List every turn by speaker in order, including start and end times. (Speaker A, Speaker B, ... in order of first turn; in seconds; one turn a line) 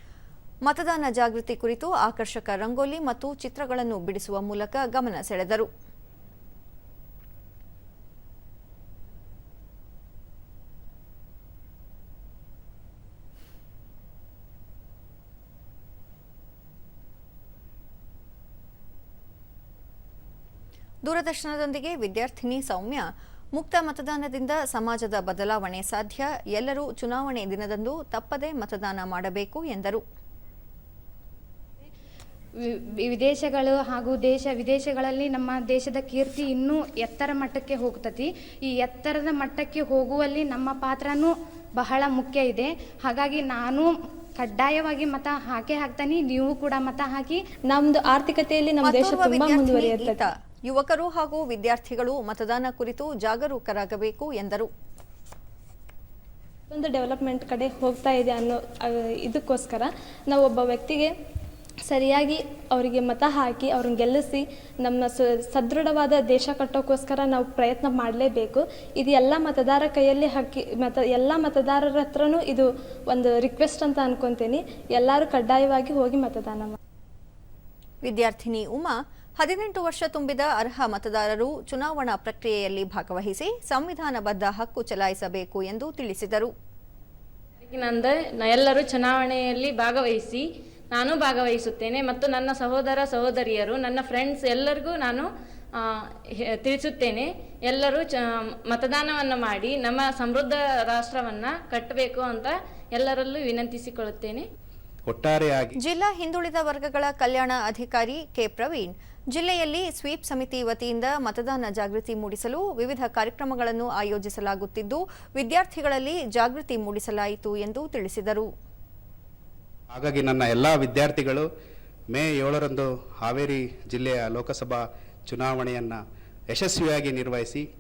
Speaker A: 0.7-5.7
Speaker A: 21.1-30.0
Speaker B: 32.6-47.4
Speaker C: 47.7-50.2
Speaker A: 48.8-54.7
Speaker C: 56.7-61.1
Speaker C: 61.9-76.8
Speaker A: 78.0-86.5
Speaker D: 87.7-96.0
Speaker D: 96.6-104.5
Speaker E: 105.1-105.8
Speaker A: 105.8-118.5
Speaker E: 119.9-121.5
Speaker E: 122.1-127.7